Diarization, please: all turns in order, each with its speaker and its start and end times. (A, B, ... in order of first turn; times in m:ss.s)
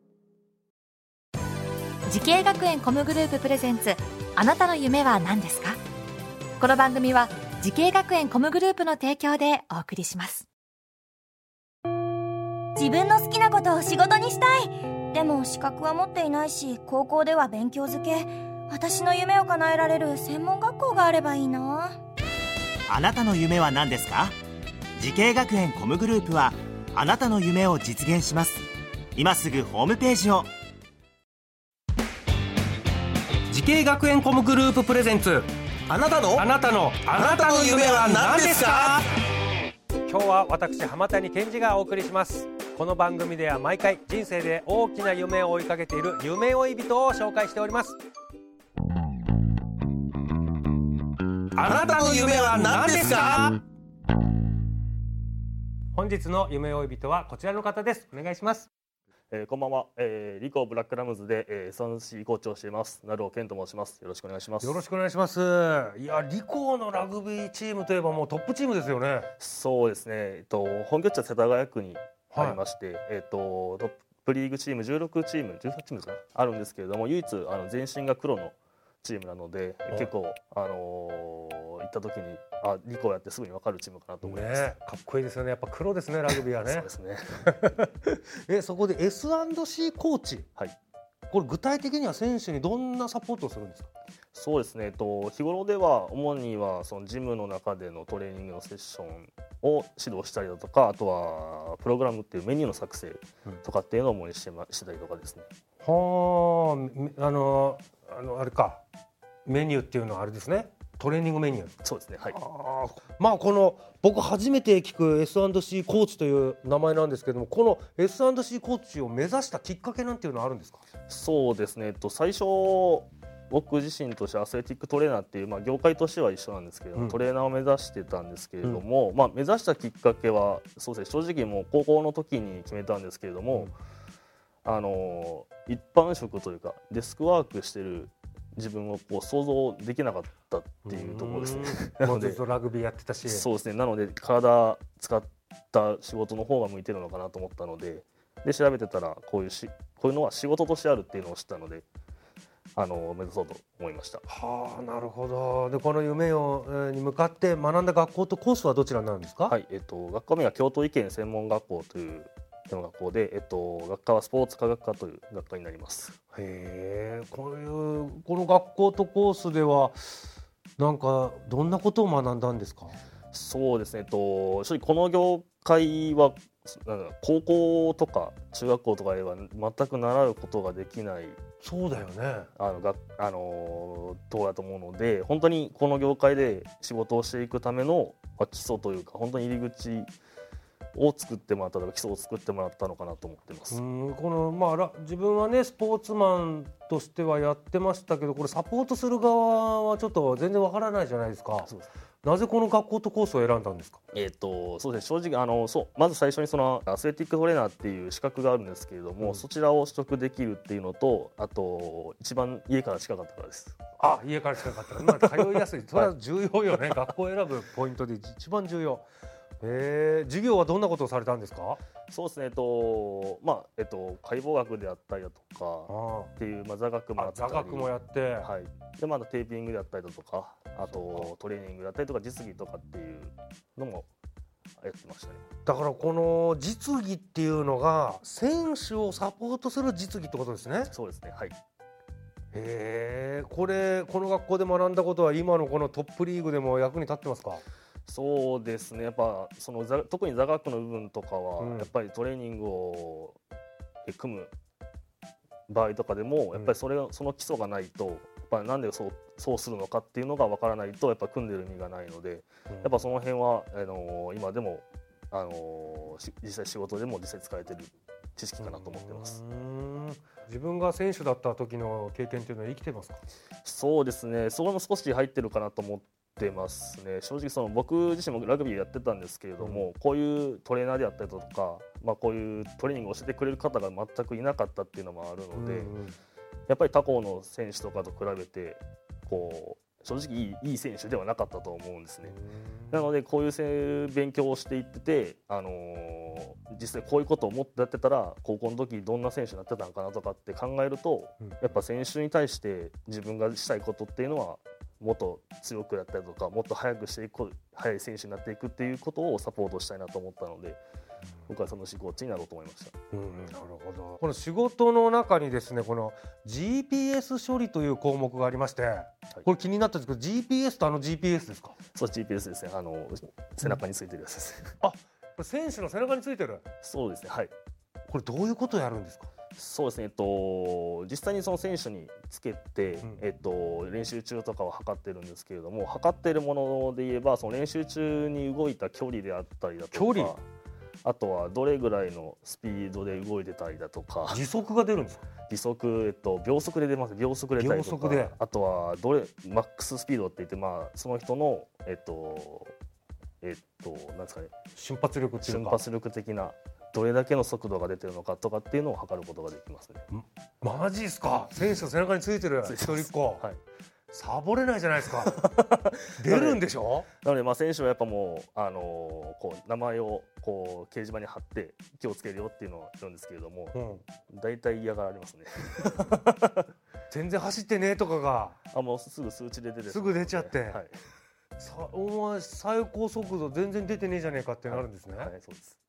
0:02.1-0:05.8 A
0:06.6-0:10.5 A
0:12.8-0:22.0 B
0:22.9-0:24.4 C
0:25.0-0:28.6 C
0:29.2-0:30.5 C
0:33.5-0:35.5 D
0:35.9-0:36.4 E
0:36.3-0:39.0 D
0:37.1-0:39.0 E
0:40.1-0:48.0 D
0:51.6-0:53.6 D
0:51.6-0:53.5 E
0:55.9-0:58.7 D
0:59.3-1:04.8 F
1:04.6-1:09.3 D
1:09.4-1:24.7 F
1:12.3-1:12.6 D
1:24.2-1:26.9 D
1:26.3-1:27.5 F
1:27.4-1:30.5 D
1:31.3-1:33.9 D
1:34.3-1:45.5 F
1:45.8-1:48.8 D
1:49.4-1:51.7 D
1:51.8-1:52.4 F
1:52.3-2:00.8 D
2:01.1-2:13.8 F
2:14.6-2:22.4 F
2:20.9-2:23.4 D
2:23.2-2:31.8 F
2:32.8-2:34.2 F
2:34.3-2:39.5 D
2:39.4-2:46.2 F
2:46.3-2:50.2 D
2:50.8-2:53.0 D
2:53.3-3:01.4 F
3:01.6-3:02.5 D
3:02.6-3:10.1 F
3:10.9-3:13.8 F
3:13.7-3:21.7 D
3:21.6-3:21.9 F
3:22.2-3:24.0 D
3:24.1-3:33.8 F
3:34.0-3:39.0 D
3:34.9-3:36.2 F
3:36.7-3:37.1 F
3:39.6-3:41.8 D
3:42.1-3:54.1 F
3:45.9-3:46.3 D
3:47.2-3:48.5 D
3:50.9-3:51.3 D
3:54.8-3:55.4 F
3:55.6-4:00.9 D
4:00.9-4:01.6 F
4:02.5-4:07.6 D
4:08.0-4:13.4 F
4:11.6-4:11.9 D
4:14.0-4:14.5 F
4:15.7-4:29.4 F
4:22.7-4:23.0 D
4:28.6-4:33.2 D
4:33.6-4:45.9 F
4:39.6-4:39.9 D
4:45.5-4:46.2 D
4:46.7-4:52.4 F
4:52.2-4:53.0 D
4:52.9-5:10.8 F
5:11.5-5:12.9 F
5:13.1-5:21.8 D
5:21.9-5:24.7 F
5:24.8-5:26.6 D
5:26.8-5:27.5 F
5:28.1-5:29.3 D
5:29.5-5:40.4 F
5:39.9-5:40.3 D
5:41.0-5:44.4 F
5:44.3-5:45.2 D
5:45.5-5:52.7 F
5:47.6-5:48.3 D
5:53.4-5:54.5 F
5:54.8-5:55.8 D
5:55.4-6:00.0 F
6:00.1-6:03.4 D
6:02.6-6:03.6 F
6:04.1-6:05.4 D
6:05.1-6:06.6 F
6:06.2-6:07.1 D
6:07.2-6:13.8 F
6:13.7-6:14.0 D
6:14.3-6:16.6 F
6:17.1-6:18.6 D
6:18.7-6:21.0 F
6:19.9-6:20.8 D
6:21.6-6:25.3 D
6:24.7-6:25.8 F